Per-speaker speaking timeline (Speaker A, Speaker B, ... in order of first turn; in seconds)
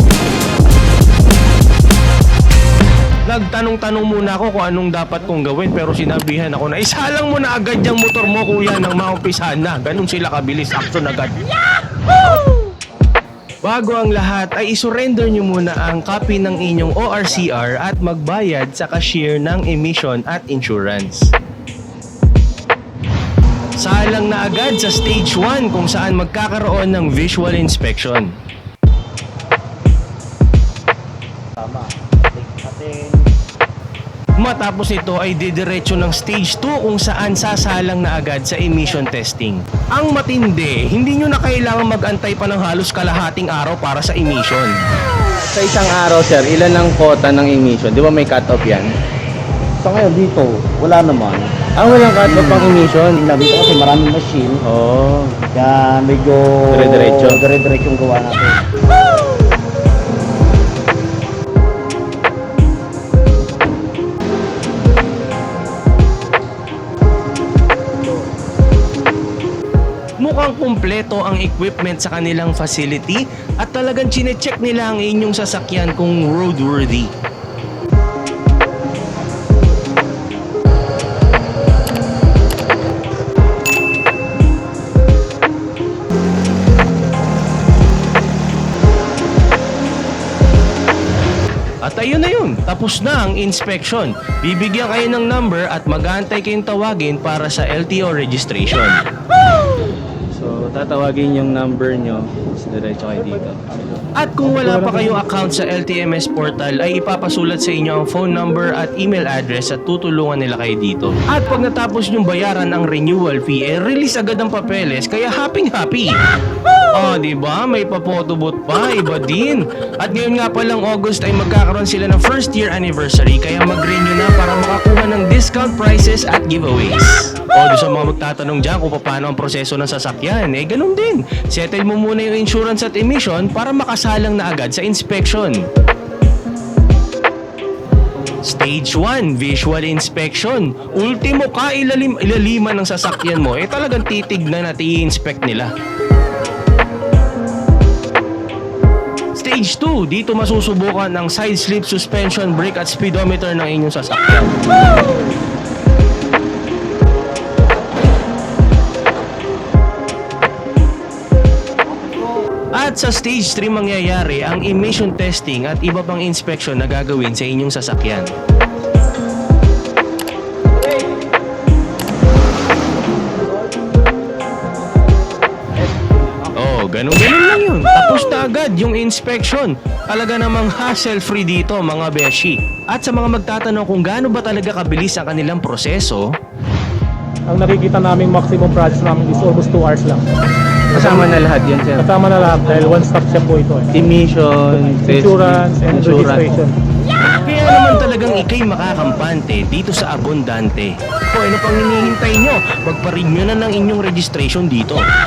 Speaker A: 3.3-11.4, 13.6-21.3, 23.8-28.3, 34.4-44.7, 70.2-77.1, 91.9-99.0, 104.2-116.1, 117.0-135.6, 138.5-145.7, 149.4-154.5, 162.8-168.3, 176.6-186.2, 197.3-205.1
Speaker B: 31.6-33.2, 49.8-51.5, 52.0-54.6, 55.5-58.6
Speaker C: 45.3-48.9, 51.8-53.2, 54.7-55.4, 56.7-57.4, 100.3-103.7, 190.9-192.1, 193.9-196.5
Speaker D: 187.5-190.2, 190.9-191.3, 192.0-193.9, 195.1-196.8